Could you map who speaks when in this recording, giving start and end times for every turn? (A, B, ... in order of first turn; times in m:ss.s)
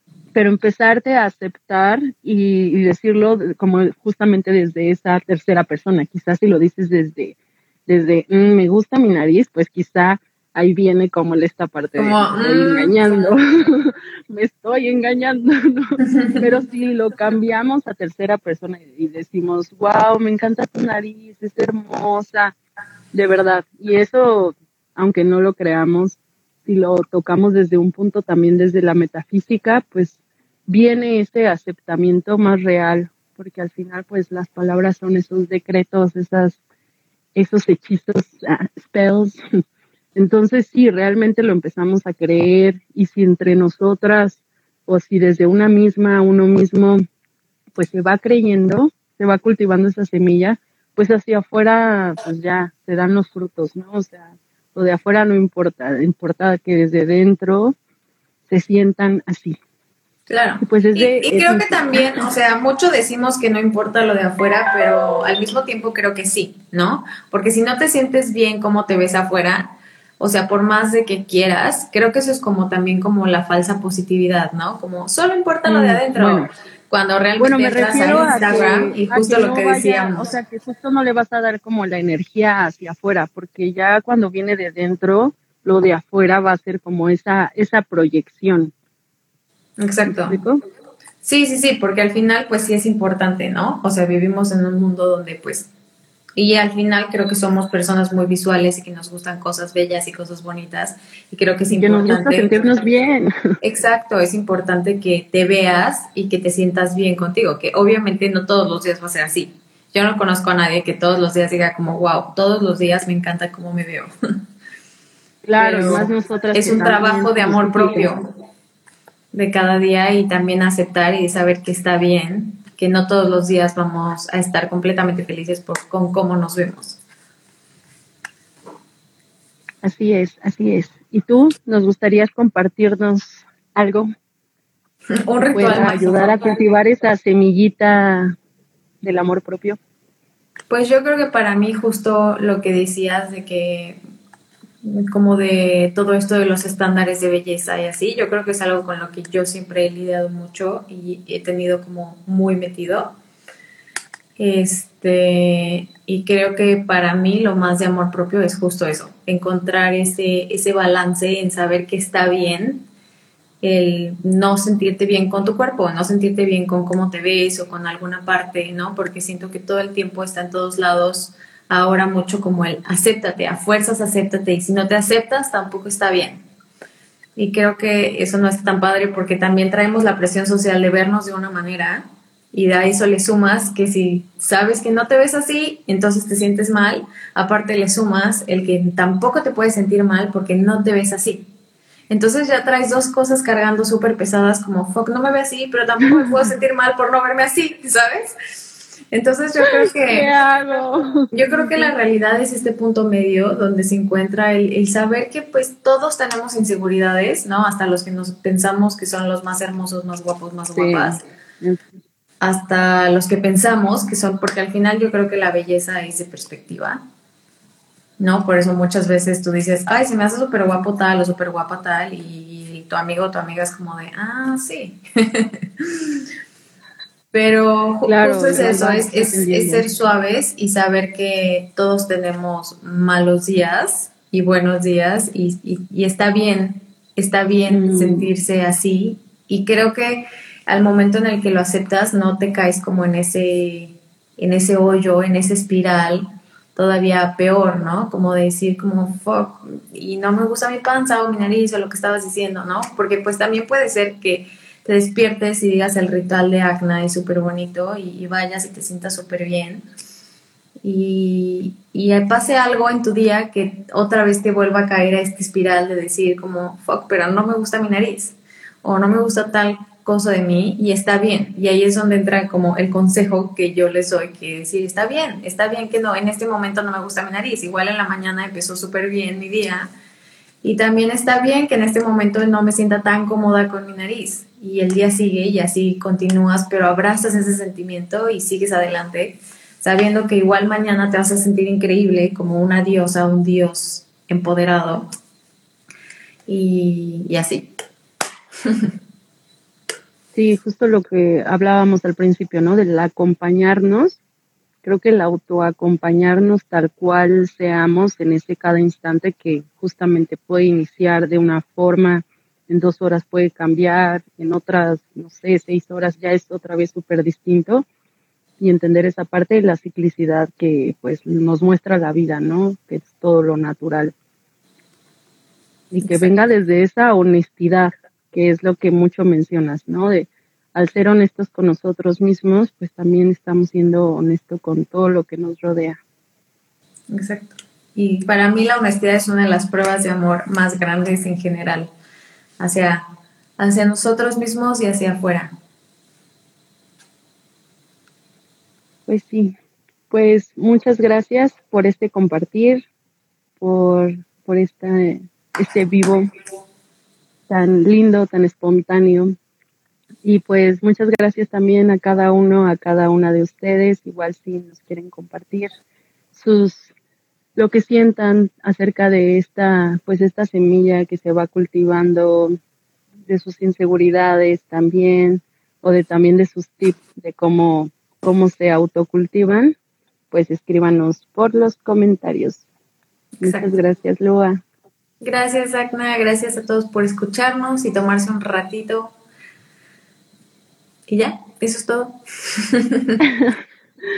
0:00.3-0:07.4 A
0:07.9-0:22.5 A
0:12.0-0:13.0 B
0:16.1-0:16.4 B
0:23.1-0:36.6 A
0:37.4-0:39.4 A
0:40.1-0:47.0 A
0:47.8-0:57.8 A
0:58.5-0:59.6 A
1:00.3-1:20.3 B
1:00.6-1:02.2 A
1:15.6-1:16.5 A
1:17.4-1:28.7 A
1:29.8-1:30.4 B
1:30.1-1:30.6 A
1:31.2-1:35.7 B
1:36.4-1:42.5 B
1:41.7-1:43.3 A
1:43.6-1:54.1 B
1:55.4-1:58.1 A
1:55.6-1:58.2 B
1:59.3-2:07.0 B
2:09.8-2:14.1 A
2:15.2-2:16.4 B
2:15.4-2:18.4 A
2:19.0-2:19.8 A
2:20.7-2:24.0 B
2:24.8-2:33.1 B
2:34.4-2:42.8 B
2:43.6-2:56.4 B
2:57.4-3:11.5 B
3:12.1-3:18.4 B
3:19.1-3:20.3 B
3:19.6-3:21.9 A
3:21.3-3:31.2 B
3:30.7-3:31.8 A
3:32.4-3:37.0 B
3:38.2-3:46.2 B
3:47.3-4:06.2 B
3:48.0-3:49.8 A
3:57.7-3:58.3 A
4:06.7-4:19.8 B
4:20.8-4:39.9 B
4:40.6-4:55.1 B
4:56.5-4:57.7 B
4:58.6-4:58.9 B
5:00.3-5:04.2 A
5:04.8-5:17.8 A
5:18.6-5:24.1 A
5:25.9-5:36.0 A
5:26.0-5:26.3 B
5:37.1-5:41.9 B
5:42.6-5:43.0 B
5:43.6-5:45.5 B
5:49.1-5:49.5 A
5:50.1-5:52.8 A
5:53.6-5:56.3 A
5:57.5-5:59.4 A
6:00.2-6:05.7 A
6:06.3-6:06.9 A
6:07.6-6:12.6 A
6:13.3-6:19.8 A
6:20.3-6:22.6 A
6:23.4-6:23.7 B
6:23.4-6:24.6 A
6:25.2-6:29.1 B
6:31.1-6:33.2 B
6:33.2-6:33.6 A